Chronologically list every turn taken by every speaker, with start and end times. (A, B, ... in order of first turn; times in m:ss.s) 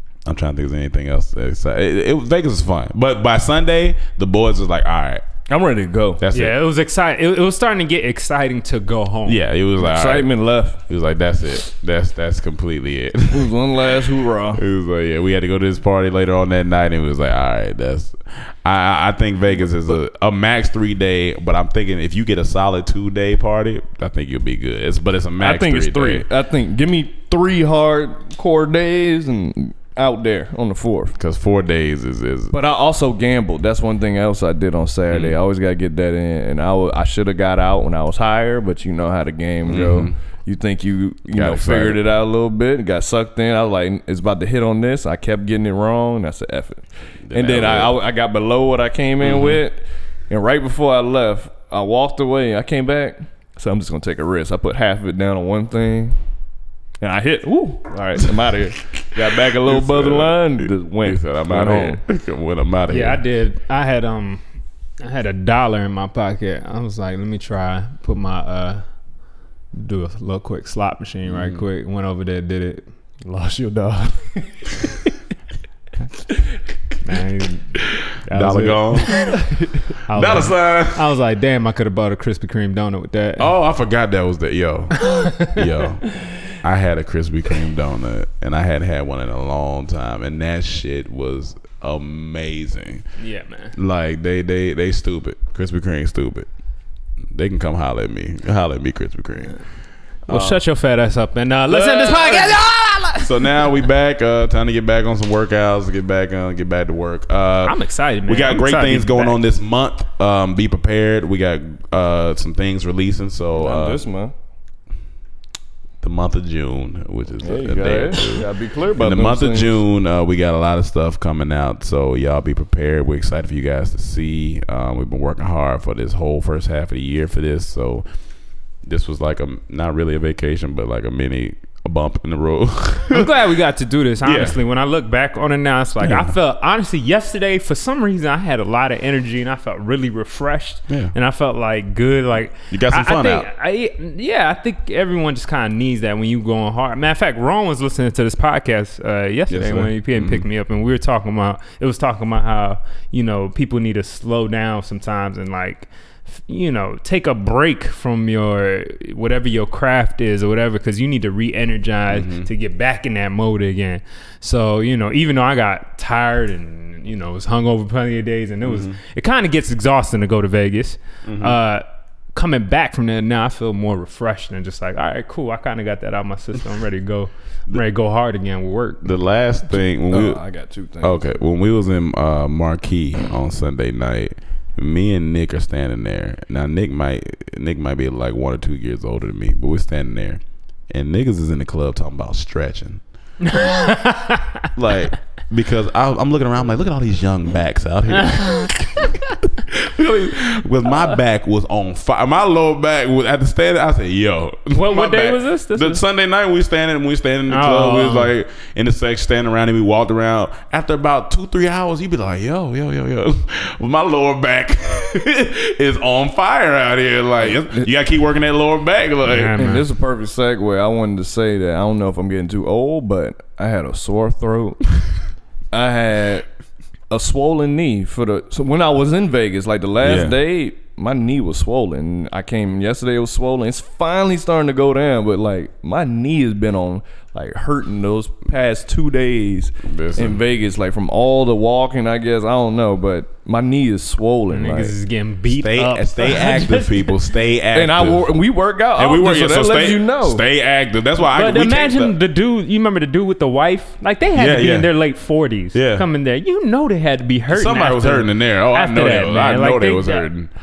0:00.2-0:05.2 A
0:05.5-0:06.2 B
0:06.2-0:06.6 A
0:06.3-0:09.4 C
0:09.2-0:10.3 A
0:09.8-0:10.8 B
0:10.8-0:13.6 A
0:13.3-0:14.6 B
0:14.5-0:26.2 A
0:25.4-0:31.2 B
0:31.2-0:32.6 A
0:32.5-0:56.2 B
0:35.1-0:35.3 A
0:39.6-0:40.1 A
0:41.3-0:42.0 A
0:47.3-0:48.0 A
0:49.2-0:49.6 A
0:57.0-1:02.0 B
0:59.5-1:03.2 A
1:02.9-1:04.4 C
1:05.0-1:08.8 C
1:09.7-1:12.8 C
1:11.2-1:11.6 A
1:13.2-1:14.7 B
1:17.0-1:19.4 C
1:18.3-1:19.3 A
1:20.1-1:23.5 C
1:20.1-1:21.1 A
1:23.4-1:33.0 A
1:25.0-1:25.6 C
1:33.2-1:33.7 C
1:33.8-1:36.5 A
1:37.3-1:39.5 A
1:40.3-1:40.6 A
1:40.3-1:43.6 C
1:41.7-1:42.6 A
1:43.2-1:47.7 A
1:47.6-1:49.4 C
1:48.2-1:54.0 A
1:53.6-1:54.3 B
1:56.0-2:08.0 A
1:57.4-1:59.8 B
2:08.8-2:13.5 A
2:13.1-2:59.1 C
2:14.2-2:14.6 A
2:16.0-2:16.3 A
2:22.7-2:23.5 A
2:29.5-2:30.4 A
2:42.1-2:42.5 A
2:48.6-2:49.0 A
2:51.2-2:51.6 A
2:59.0-3:00.4 A
3:00.1-3:01.4 B
3:01.0-3:13.0 A
3:13.4-3:14.7 C
3:14.8-3:39.8 A
3:18.4-3:18.6 C
3:24.7-3:26.0 C
3:27.5-3:28.3 C
3:39.2-3:39.8 C
3:39.6-3:44.9 B
3:45.7-3:46.5 B
3:47.1-4:04.9 B
3:50.0-3:50.3 A
3:59.8-4:00.4 A
4:04.5-4:07.1 C
4:05.5-4:08.3 A
4:07.7-4:10.4 B
4:09.0-4:12.1 A
4:11.2-4:20.3 C
4:14.3-4:14.9 A
4:15.7-4:16.0 A
4:17.5-4:20.5 A